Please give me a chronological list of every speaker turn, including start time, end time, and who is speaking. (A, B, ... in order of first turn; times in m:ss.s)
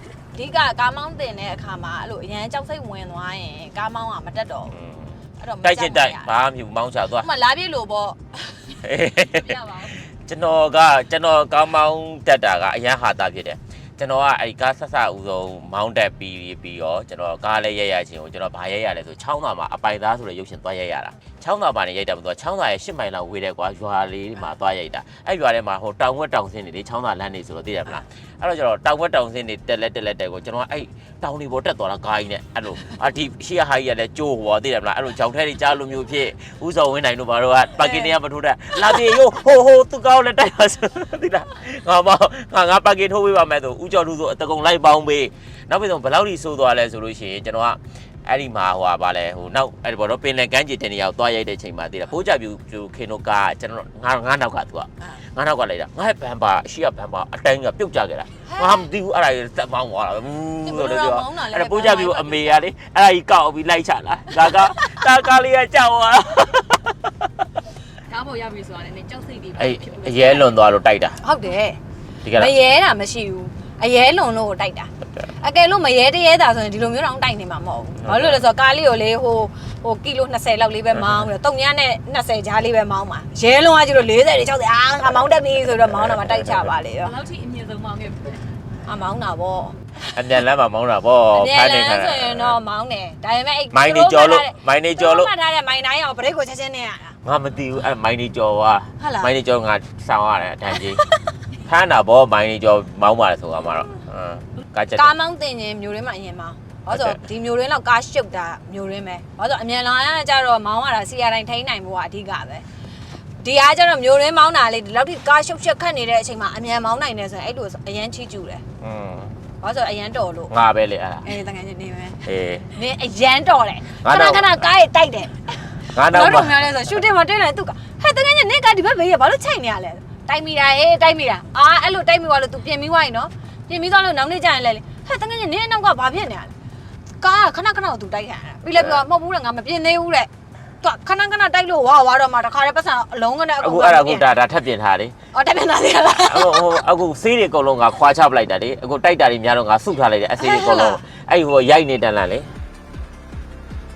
0:00.3-0:04.8 A
0:04.7-0:07.3 B
0:05.4-0:06.3 A
0:07.1-0:08.8 A
0:08.7-1:07.1 B
0:09.4-0:09.8 C
0:37.8-0:38.1 A
0:58.4-0:58.9 A
1:00.6-1:02.6 A
1:04.5-1:04.9 A
1:08.0-1:10.2 C
1:09.6-1:11.2 B
1:11.2-1:11.8 A
1:12.2-1:12.5 B
1:12.3-1:27.2 A
1:18.0-1:18.4 B
1:26.0-1:26.5 B
1:27.1-1:28.4 C
1:28.8-1:30.1 A
1:30.1-1:32.6 B
1:31.3-1:37.2 A
1:33.7-1:35.3 B
1:37.2-1:41.0 B
1:39.0-1:39.3 A
1:41.6-1:45.1 B
1:44.9-1:52.6 A
1:46.9-1:47.2 B
1:53.4-1:58.6 A
1:58.8-1:59.3 B
1:59.6-2:00.5 A
2:00.5-2:01.3 B
2:01.2-2:16.5 A
2:02.2-2:02.7 B
2:04.0-2:04.6 B
2:05.9-2:06.7 B
2:17.2-2:20.3 A
2:20.8-2:24.3 A
2:23.6-2:25.1 B
2:25.3-2:26.8 A
2:26.2-2:32.5 B
2:30.4-2:31.0 A